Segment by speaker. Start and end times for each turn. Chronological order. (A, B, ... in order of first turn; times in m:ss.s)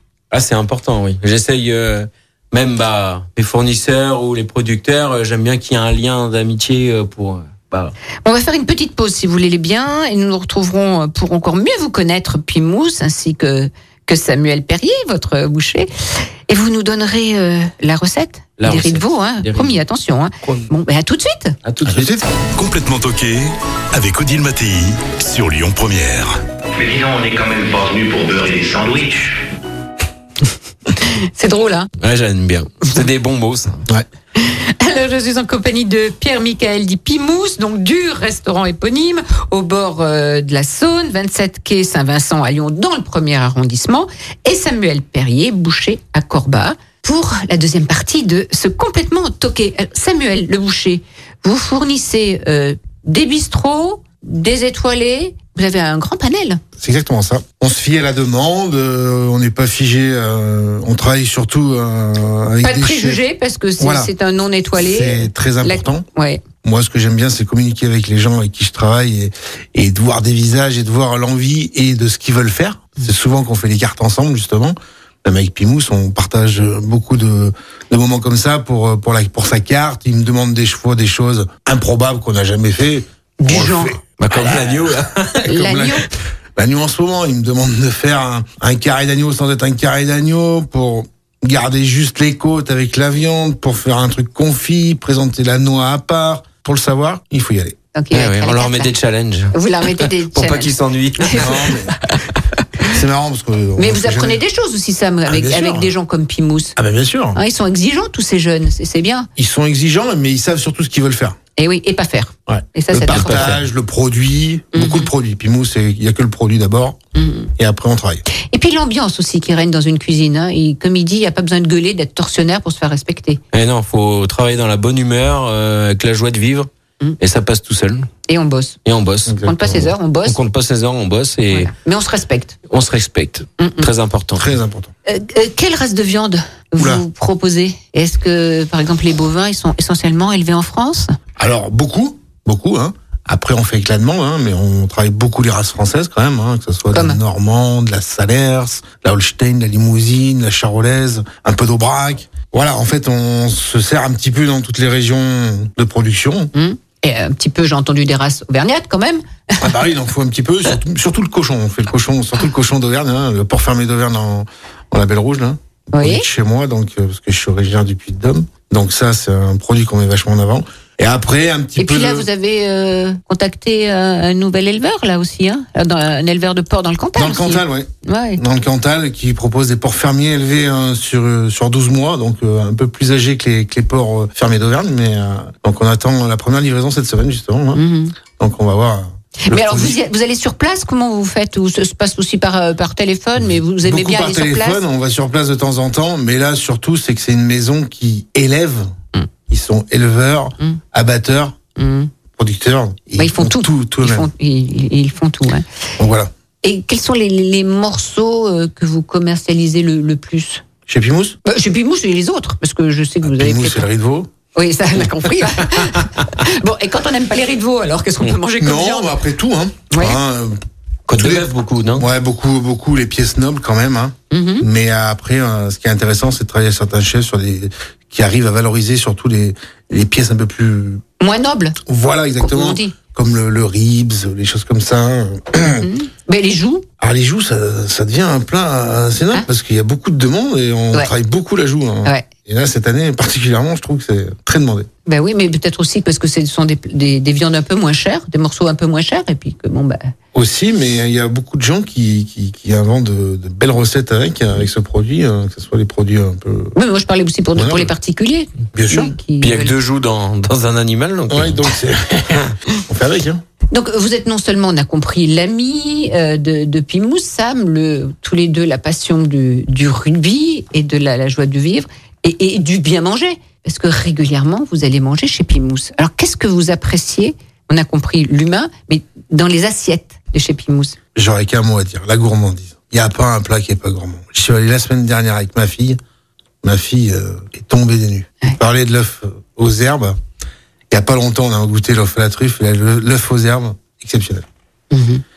0:00.3-0:07.9 A
0:08.2-0:21.6 B
0:18.6-0:19.8 A
0:21.6-0:22.2 A
0:21.8-0:22.2 C
0:22.6-0:26.4 D
0:26.7-0:29.4 E
0:31.0-0:31.9 B
0:32.0-0:33.8 A
0:34.4-0:56.6 B
0:56.8-1:03.2 C
1:02.6-1:06.4 B
1:03.8-1:04.1 C
1:04.8-1:06.0 C
1:06.6-1:37.8 C
1:23.4-1:24.0 B
1:24.2-1:25.5 A
1:25.5-1:26.0 B
1:37.9-1:38.9 B
1:38.1-1:41.6 A
1:39.5-1:42.1 B
1:41.3-1:41.9 C
1:42.9-1:44.4 C
1:43.8-1:46.7 B
1:45.3-1:45.9 C
1:46.8-1:47.4 C
1:47.3-1:49.3 B
1:49.4-1:51.4 C
1:51.6-1:53.5 B
1:52.5-1:57.0 C
1:53.0-1:53.6 A
1:54.7-1:55.1 B
1:57.1-1:57.5 B
1:57.6-1:58.2 C
1:58.4-2:03.4 B
2:03.5-2:06.7 A
2:07.2-2:08.1 A
2:08.3-2:08.8 B
2:08.8-2:11.7 A
2:09.3-2:09.8 C
2:09.4-2:10.4 B
2:11.5-2:12.6 B
2:12.7-2:14.5 A
2:13.6-2:13.9 B
2:14.4-2:14.9 C
2:15.0-2:21.1 B
2:16.8-2:17.0 C
2:21.4-2:36.5 C
2:26.9-2:27.2 B
2:36.5-2:39.7 B
2:39.6-2:52.3 C
2:45.9-2:46.2 B
2:51.8-2:58.4 B
2:57.2-3:07.8 C
3:07.7-3:08.1 B
3:08.3-3:10.0 C
3:09.4-3:14.8 B
3:13.4-3:18.9 C
3:19.5-3:21.6 C
3:21.8-3:22.1 B
3:22.3-3:24.3 C
3:23.2-3:25.6 B
3:26.0-3:26.3 C
3:26.6-3:30.6 B
3:30.9-3:31.4 C
3:31.4-3:33.9 B
3:33.2-3:34.3 C
3:34.5-3:39.1 B
3:38.6-3:40.6 C
3:39.9-3:40.2 B
3:41.1-3:42.0 A
3:41.1-3:51.0 C
3:44.3-3:44.6 B
3:51.2-3:51.8 B
3:51.8-3:55.9 C
3:52.4-3:52.9 B
3:55.6-3:56.8 B
3:57.0-4:04.9 C
4:05.1-4:10.1 B
4:10.3-4:16.7 C
4:16.7-4:19.7 B
4:17.5-4:17.9 C
4:18.7-4:19.1 C
4:19.4-4:21.6 A
4:21.3-4:23.4 C
4:23.7-4:41.0 B
4:41.1-4:46.0 C
4:46.6-4:50.2 C
4:50.9-4:54.4 C
4:54.9-4:55.2 B